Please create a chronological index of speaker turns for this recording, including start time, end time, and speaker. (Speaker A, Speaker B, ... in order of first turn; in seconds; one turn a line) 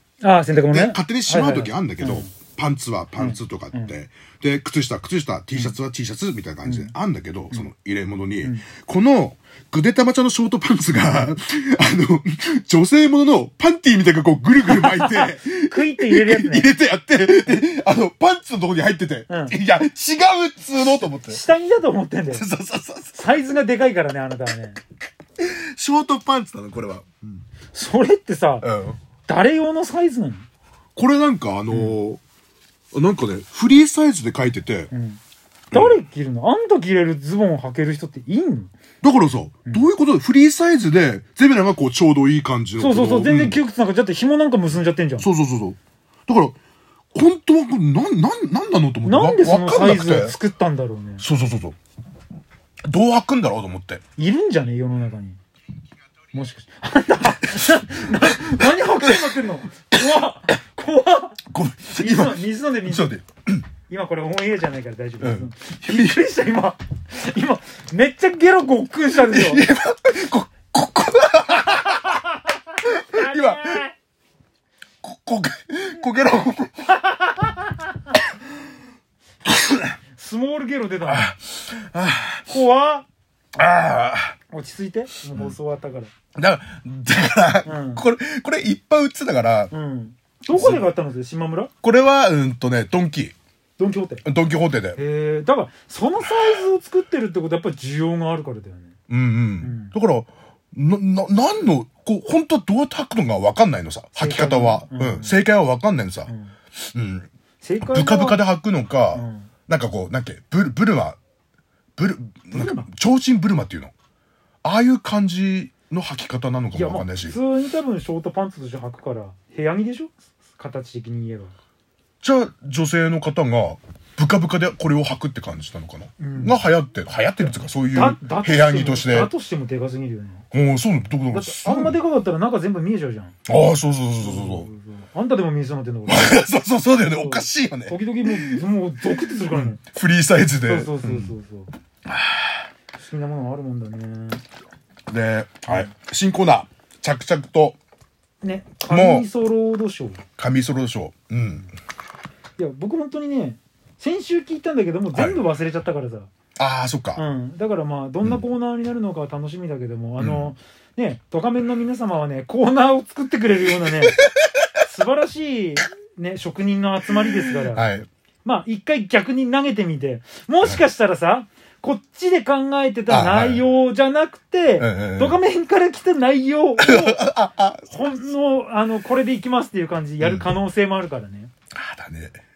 Speaker A: 0.2-2.3
Speaker B: 0.7-21.4
Speaker A: 3.2-3.9
Speaker A: 6.7-6.9
Speaker A: 14.7-16.7
Speaker A: 19.3-19.6
Speaker A: 21.2-22.5
Speaker B: 22.3-23.2
Speaker A: 23.1-24.8
Speaker B: 25.4-27.4
Speaker A: 27.7-28.7
Speaker B: 28.6-29.0
Speaker A: 29.3-30.5
Speaker B: 31.0-32.2
Speaker A: 31.7-32.0
Speaker B: 32.9-34.9
Speaker A: 34.9-35.2
Speaker B: 35.7-36.0
Speaker A: 35.7-38.7
Speaker B: 39.0-43.6
Speaker A: 42.8-45.3
Speaker B: 45.2-46.6
Speaker B: 47.1-50.4
Speaker A: 49.0-51.2
Speaker B: 51.2-51.8
Speaker B: 52.9-54.0
Speaker A: 54.2-55.4
Speaker A: 56.3-61.4
Speaker B: 58.1-59.4
Speaker B: 61.5-63.7
Speaker A: 61.9-63.1
Speaker A: 63.9-69.6
Speaker B: 65.2-66.2
Speaker B: 69.2-72.2
Speaker A: 71.8-72.2
Speaker B: 72.8-73.8
Speaker A: 72.9-73.9
Speaker B: 75.0-76.9
Speaker A: 77.0-77.6
Speaker B: 79.5-80.0
Speaker A: 80.2-81.3
Speaker B: 81.0-82.5
Speaker A: 82.5-83.1
Speaker B: 83.5-84.4
Speaker A: 84.5-86.1
Speaker B: 86.3-89.7
Speaker A: 87.7-88.1
Speaker A: 89.7-91.7
Speaker B: 90.5-90.9
Speaker B: 91.8-93.3
Speaker A: 93.8-94.2
Speaker B: 94.2-95.0
Speaker A: 95.0-99.0
Speaker B: 96.2-96.7
Speaker B: 99.1-107.3
Speaker A: 99.6-99.9
Speaker A: 104.2-105.4
Speaker A: 106.3-106.5
Speaker A: 107.6-108.4
Speaker B: 107.8-111.2
Speaker A: 109.1-109.5
Speaker B: 112.0-113.9
Speaker A: 112.5-112.9
Speaker B: 114.6-117.4
Speaker A: 116.7-121.5
Speaker B: 122.2-129.3
Speaker A: 126.2-126.6
Speaker A: 127.4-130.4
Speaker B: 130.5-132.0
Speaker A: 131.3-133.4
Speaker B: 133.5-134.7
Speaker A: 134.2-136.5
Speaker B: 136.1-141.3
Speaker A: 137.0-139.8
Speaker A: 140.6-141.7
Speaker B: 142.1-142.7
Speaker A: 143.0-144.4
Speaker B: 145.1-147.8
Speaker A: 148.4-150.2
Speaker B: 148.9-149.3
Speaker B: 150.4-151.7
Speaker A: 152.6-156.3
Speaker B: 155.1-155.4
Speaker B: 156.6-157.2
Speaker A: 157.2-164.2
Speaker B: 160.2-160.5
Speaker B: 164.2-164.7
Speaker A: 164.8-167.9
Speaker B: 167.5-168.1
Speaker A: 168.4-177.3
Speaker B: 173.1-173.6
Speaker B: 174.8-175.4
Speaker B: 176.8-177.9
Speaker A: 177.8-181.5
Speaker B: 180.2-180.5
Speaker B: 181.7-182.4